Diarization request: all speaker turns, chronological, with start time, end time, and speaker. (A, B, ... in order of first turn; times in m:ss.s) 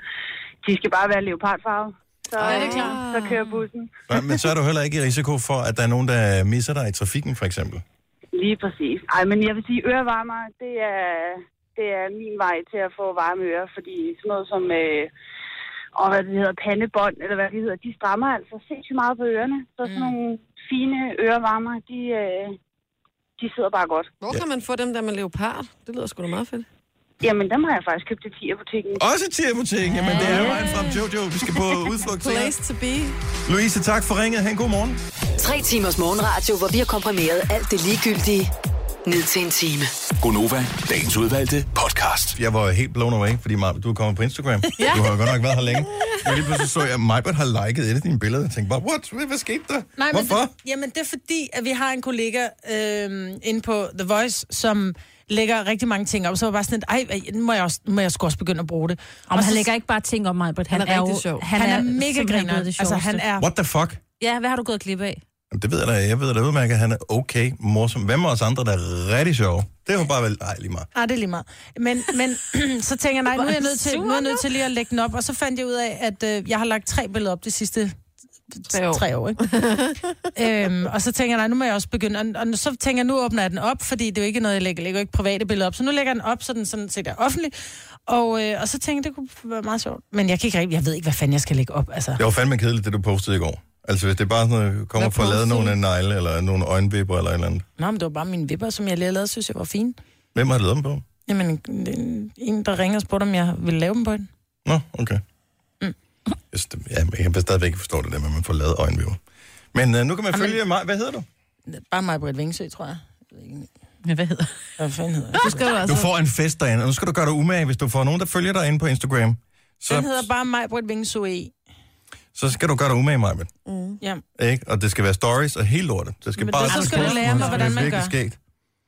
0:00.6-0:03.9 A
0:02.4-0:03.6 B
0:02.5-0:03.0 C
0:04.1-0:07.8 D
0:08.3-0:15.1 A
0:16.0-0:22.6 A
0:19.8-0:20.2 C
0:23.4-0:24.1 A
0:24.2-0:26.7 B
0:27.2-0:29.0 A
0:29.0-0:32.6 D
0:29.9-0:31.0 E
0:32.2-0:33.2 B
0:33.5-0:35.0 D
0:35.4-0:38.5 F
0:39.0-0:39.9 F
0:40.2-0:42.4 G
0:42.4-0:50.5 D
0:50.0-0:59.7 C
0:59.3-1:03.2 E
1:00.7-1:01.5 B
1:01.6-1:03.5 C
1:03.4-1:04.0 D
1:04.2-1:05.2 E
1:05.5-1:10.9 D
1:11.0-1:18.0 C
1:13.4-1:14.4 E
1:18.5-1:19.5 C
1:18.7-1:20.1 B
1:20.3-1:27.6 C
1:28.1-1:32.2 C
1:32.2-1:37.7 D
1:35.0-1:35.7 B
1:37.8-1:40.0 C
1:40.4-1:41.0 D
1:41.3-1:44.3 C
1:44.6-1:45.2 D
1:46.5-1:49.2 D
1:49.7-1:51.3 D
1:51.7-1:53.7 C
1:54.0-1:54.7 E
1:54.8-1:55.7 C
1:55.4-1:56.1 B
1:55.8-2:00.3 D
1:59.9-2:01.5 C
2:02.4-2:03.5 D
2:03.7-2:04.0 B
2:04.4-2:08.4 D
2:06.5-2:08.2 C
2:06.5-2:07.9 E